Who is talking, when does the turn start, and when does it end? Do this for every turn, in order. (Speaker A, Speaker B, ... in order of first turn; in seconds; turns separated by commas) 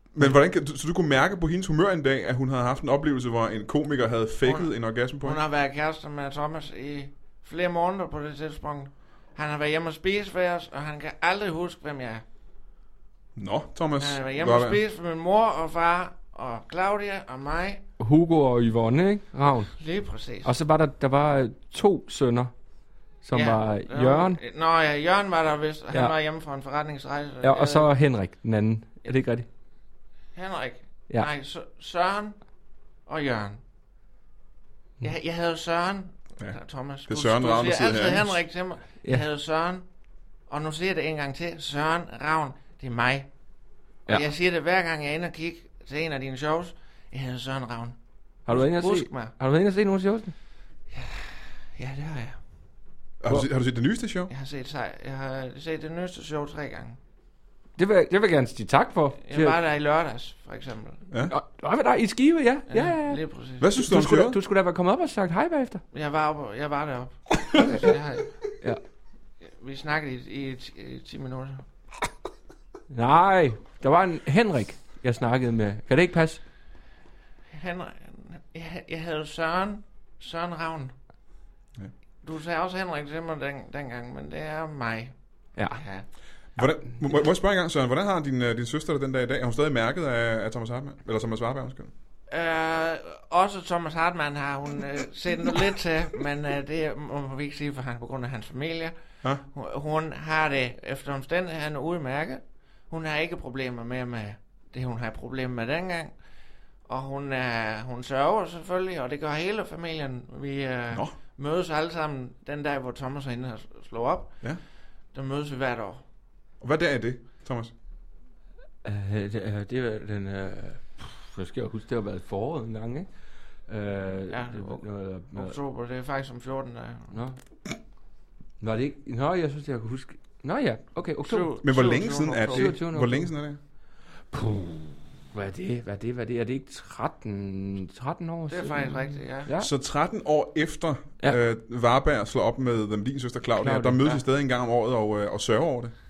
Speaker A: 0.1-5.4, Speaker B: 4.4-12.2, Speaker A: 13.3-14.8, Speaker B: 14.0-17.8, Speaker C: 18.0-19.7, Speaker B: 19.7-20.5, Speaker C: 20.4-22.5, Speaker C: 23.2-24.4, Speaker B: 23.3-27.9, Speaker C: 27.4-29.5, Speaker B: 30.3-32.4, Speaker B: 33.1-33.6, Speaker B: 35.0-39.8, Speaker A: 36.4-38.4, Speaker B: 40.5-43.3, Speaker B: 44.0-48.0, Speaker C: 48.5-50.3, Speaker B: 48.5-49.3, Speaker B: 50.9-52.4, Speaker A: 53.2-54.3, Speaker B: 54.3-57.0, Speaker C: 57.8-59.6, Speaker B: 59.2-61.0, Speaker A: 61.1-61.4, Speaker C: 61.3-63.2, Speaker B: 62.7-63.7, Speaker A: 63.6-64.4, Speaker C: 63.7-65.8, Speaker B: 65.9-68.3, Speaker B: 69.6-71.6, Speaker C: 72.9-76.4, Speaker B: 77.5-80.9, Speaker B: 82.2-85.1, Speaker C: 85.5-85.8, Speaker B: 85.7-86.0, Speaker A: 86.5-91.9, Speaker B: 92.3-106.1, Speaker B: 106.9-114.5, Speaker B: 115.1-116.0, Speaker A: 116.6-117.7, Speaker C: 118.8-123.1, Speaker C: 123.7-125.6, Speaker B: 124.3-127.2, Speaker C: 127.1-127.4, Speaker C: 128.6-131.6, Speaker B: 131.2-132.7, Speaker A: 131.6-133.6, Speaker C: 132.5-133.3, Speaker C: 134.3-139.7, Speaker B: 138.5-139.5, Speaker A: 139.6-145.9, Speaker C: 143.5-144.2